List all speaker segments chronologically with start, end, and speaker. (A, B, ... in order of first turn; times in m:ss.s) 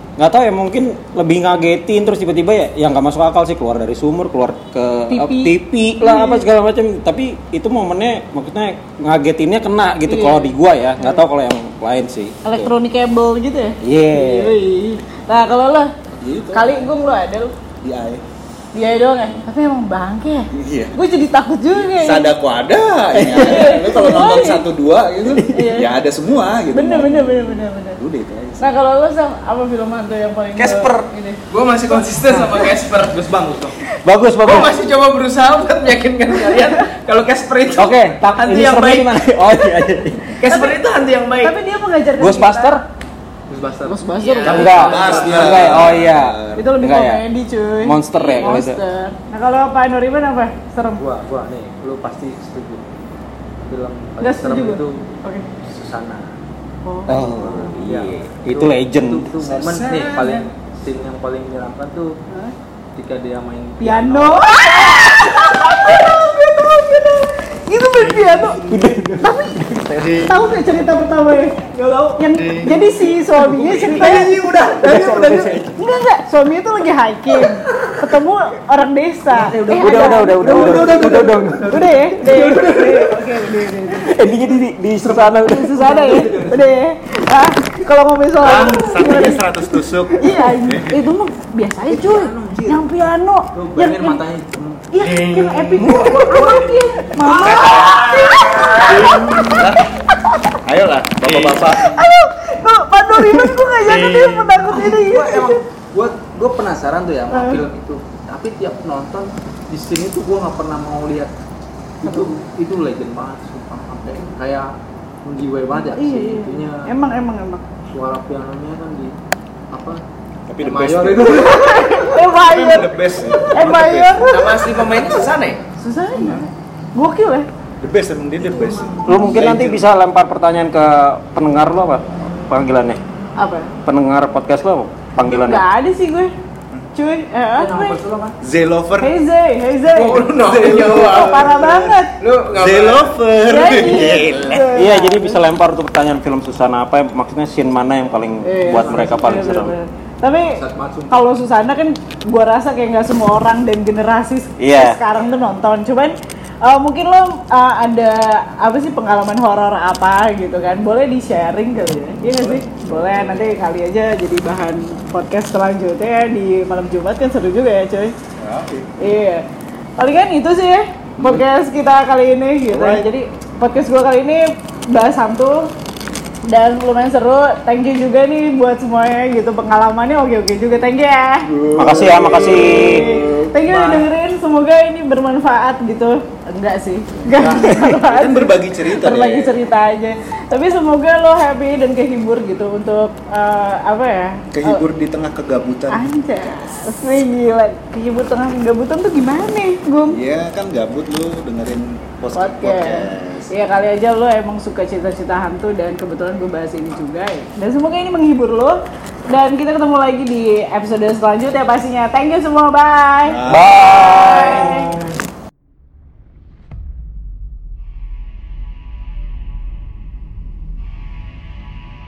0:00.2-0:12.7 A
0:05.1-0:06.5 B
0:10.0-0:11.2 B
0:12.4-0:15.9 B
0:13.8-0:14.5 A
0:16.2-0:16.9 C
0:16.5-0:17.5 B
0:17.8-0:18.2 C
0:18.7-0:22.3 B
0:20.5-0:21.0 C
0:21.9-0:28.7 C
0:23.1-0:23.8 A
0:23.3-0:24.6 B
0:25.3-0:25.8 A
0:25.5-0:25.9 B
0:26.7-0:28.0 B
0:28.6-0:31.4 B
0:30.6-0:30.9 A
0:31.5-0:33.8 D
0:34.0-0:34.8 A
0:34.4-0:39.1 D
0:37.7-0:40.4 A
0:40.3-0:41.5 D
0:40.4-0:40.8 B
0:41.4-0:42.8 B
0:42.2-0:42.8 A
0:43.5-0:46.0 E
0:43.8-0:45.2 B
0:44.2-0:45.3 D
0:44.5-0:47.2 A
0:44.6-0:46.7 C
0:46.6-0:51.0 B
0:47.8-0:48.8 A
0:51.0-0:52.9 E
0:53.6-0:55.0 E
0:54.2-0:55.5 B
0:55.6-0:56.3 E
0:56.8-0:57.8 B
0:57.1-0:59.3 A
0:57.2-1:02.1 E
0:59.5-1:00.4 C
1:02.3-1:02.5 B
1:03.0-1:04.4 E
1:03.8-1:11.6 B
1:08.6-1:10.2 A
1:11.7-1:13.0 E
1:12.2-1:14.4 B
1:13.6-1:15.6 E
1:13.6-1:14.1 C
1:13.7-1:15.7 A
1:15.6-1:21.1 B
1:17.4-1:18.0 E
1:19.3-1:23.2 E
1:19.6-1:22.6 A
1:21.6-1:24.2 B
1:24.0-1:25.9 A
1:25.0-1:26.7 E
1:25.2-1:29.4 B
1:28.4-1:31.0 C
1:30.2-1:34.2 B
1:31.8-1:32.8 E
1:33.5-1:34.8 E
1:34.9-1:40.6 B
1:35.0-1:36.5 C
1:35.8-1:37.9 E
1:37.3-1:39.8 C
1:40.6-1:42.0 C
1:41.2-1:41.8 E
1:41.8-1:45.6 B
1:43.8-1:44.8 C
1:44.7-1:51.3 E
1:47.3-1:47.6 B
1:52.0-1:54.7 E
1:52.0-1:52.3 B
1:55.2-1:56.8 E
1:55.8-1:57.6 B
1:57.9-1:59.2 E
1:59.7-2:00.0 E
2:00.5-2:04.4 C
2:00.6-2:01.8 E
2:01.4-2:03.0 B
2:03.5-2:05.0 B
2:04.2-2:05.6 D
2:05.8-2:07.5 B
2:06.1-2:06.5 C
2:07.8-2:09.8 C
2:08.4-2:09.2 E
2:09.1-2:13.0 A
2:13.4-2:13.7 B
2:13.8-2:15.6 A
2:15.2-2:16.3 B
2:16.9-2:18.0 B
2:17.6-2:18.4 E
2:18.4-2:19.2 C
2:19.0-2:22.2 B
2:20.0-2:22.0 C
2:20.0-2:21.5 D
2:22.2-2:23.1 D
2:22.5-2:24.6 C
2:23.4-2:25.4 B
2:24.2-2:24.6 D
2:24.7-2:29.7 A
2:28.4-2:30.6 B
2:28.6-2:29.7 E
2:30.5-2:31.2 E
2:31.1-2:48.1 B
2:34.6-2:35.0 A
2:48.4-2:48.9 C
2:49.0-2:49.4 B
2:50.0-2:55.7 B
2:51.2-2:51.4 C
2:52.7-2:53.0 C
2:56.5-3:01.5 B
3:01.4-3:03.5 C
3:01.8-3:03.0 A
3:02.1-3:14.8 B
3:03.6-3:04.1 E
3:07.1-3:09.6 C
3:14.5-3:16.1 C
3:15.9-3:20.2 B
3:20.1-3:23.5 C
3:22.3-3:34.9 B
3:33.2-3:34.3 C
3:33.5-3:35.1 A